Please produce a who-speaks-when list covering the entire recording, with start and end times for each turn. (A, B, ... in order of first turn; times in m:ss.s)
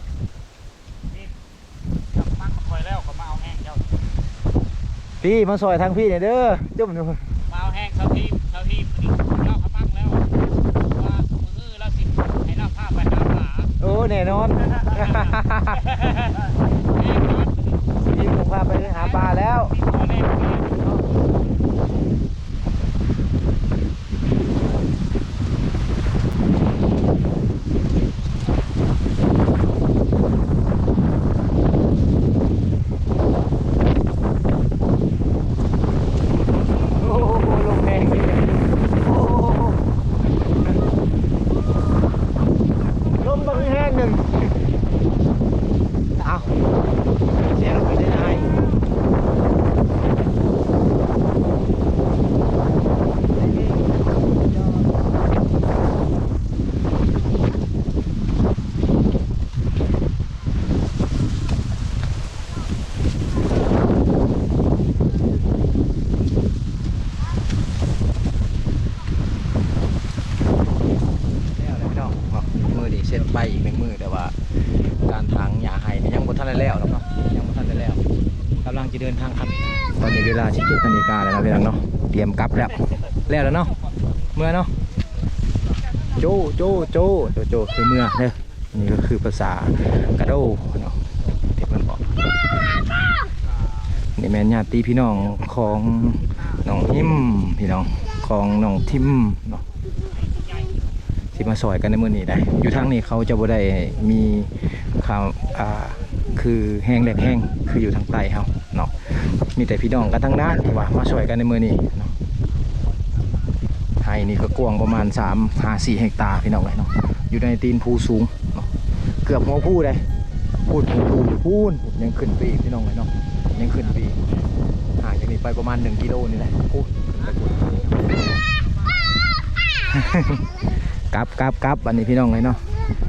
0:02.1-0:03.9 A
0:05.2-0:07.3 B
0:07.5-0:13.8 A
0:13.8-0:15.8 B
0:14.7-0:18.2 A
0:18.0-0:19.7 B
0:18.7-0:21.0 A
0:37.0-0:39.8 B
0:43.2-0:44.6 B
0:46.2-0:46.7 A
0:46.2-0:46.5 B
0:47.5-0:48.5 B
1:11.6-1:14.4 B
1:15.0-1:18.0 B
1:18.6-1:23.7 B
1:19.2-1:20.0 A
1:22.6-1:24.4 A
1:24.4-1:24.7 B
1:25.8-1:26.2 A
1:26.2-1:31.0 B
1:31.2-1:34.2 A
1:31.6-1:32.0 B
1:34.2-1:39.6 B
1:35.1-1:36.9 A
1:40.0-1:41.6 A
1:41.3-1:52.1 B
1:45.3-1:45.6 A
1:52.7-1:53.8 A
1:54.0-1:58.7 B
1:59.2-2:00.0 B
2:00.6-2:04.2 B
2:03.6-2:04.5 A
2:05.0-2:08.3 B
2:07.2-2:09.1 A
2:09.9-2:12.6 B